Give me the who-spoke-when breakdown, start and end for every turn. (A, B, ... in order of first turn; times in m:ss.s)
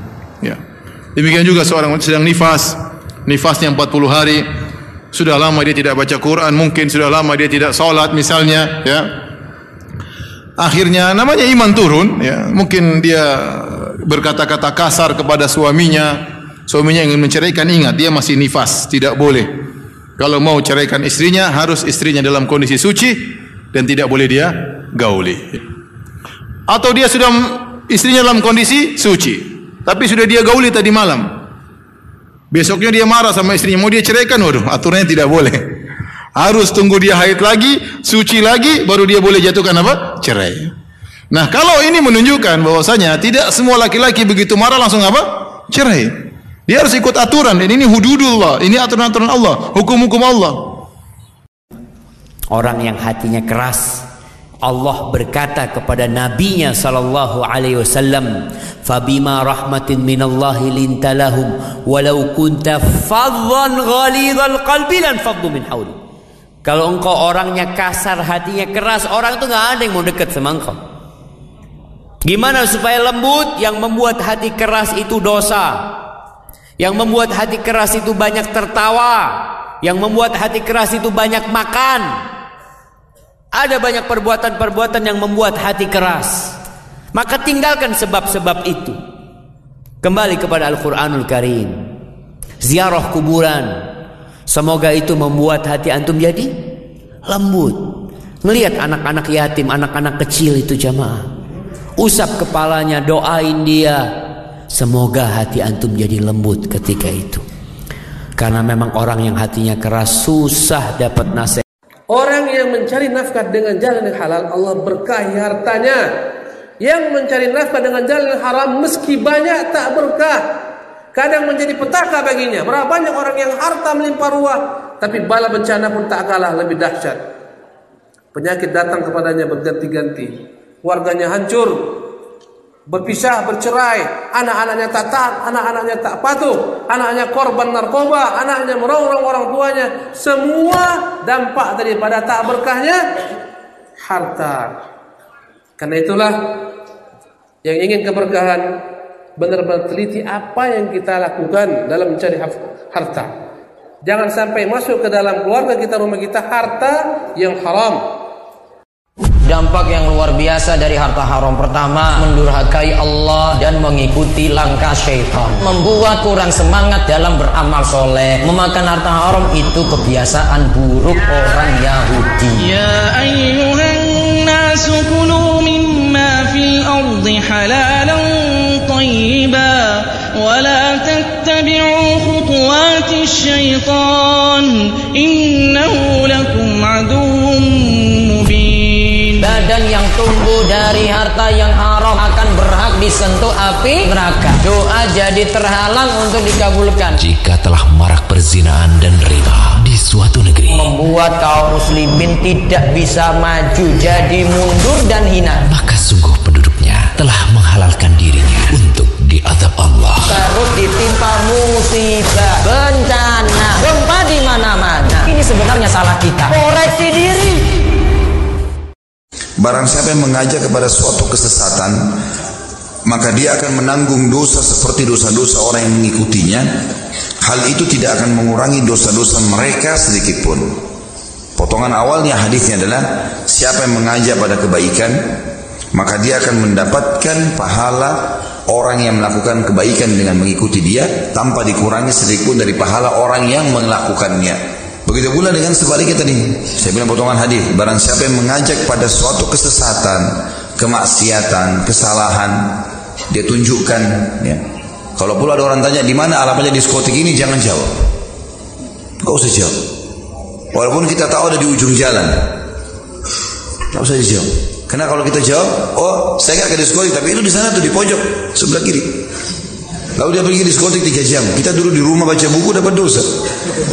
0:01.2-0:04.5 A
0:05.1-0:09.0 A
0:10.6-0:19.5 A
0:20.2-0:23.2 A
0:23.7-0:25.6 A
0:26.7-0:31.3 A
0:32.5-0:35.7 A
0:36.4-0:40.7 A
0:41.3-0:46.1 A
0:46.7-0:50.6 A
0:52.5-0:54.0 B
0:54.6-0:58.3 B
0:58.8-1:06.0 B
1:06.6-1:10.8 B
1:12.2-1:15.7 B
1:16.8-1:19.3 B
1:19.8-1:22.1 B
1:23.5-1:26.6 B
1:27.1-1:29.0 B
1:30.0-1:31.8 B
1:32.6-1:33.8 B
1:34.5-1:36.6 B
1:37.2-1:37.9 B
1:38.4-1:41.3 B
1:42.0-1:44.0 B
1:44.7-1:47.4 B
1:48.4-1:51.6 B
1:52.1-1:56.0 C
1:56.8-2:00.4 C
2:01.2-2:07.2 C
2:08.3-2:10.3 C
2:10.8-2:11.8 C
2:12.9-2:23.0 C
2:24.0-2:24.7 C
2:25.8-2:26.3 C
2:27.6-2:28.6 C
2:29.4-2:33.3 C
2:34.1-2:38.0 C
2:39.4-2:52.6 D
2:52.6-3:09.3 E
3:09.4-3:17.2 D
3:17.2-3:20.8 F
3:20.7-3:25.7 D
3:25.7-3:30.2 F
3:30.2-3:37.7 D
3:39.6-3:42.0 G
3:43.0-3:46.7 G
3:47.4-3:50.7 G
3:51.6-3:55.2 G
3:55.9-4:12.6 G
4:13.3-4:14.6 G
4:15.2-4:17.9 G
4:19.2-4:19.8 G
4:20.7-4:22.6 G
4:23.9-4:29.2 G
4:30.2-4:33.3 G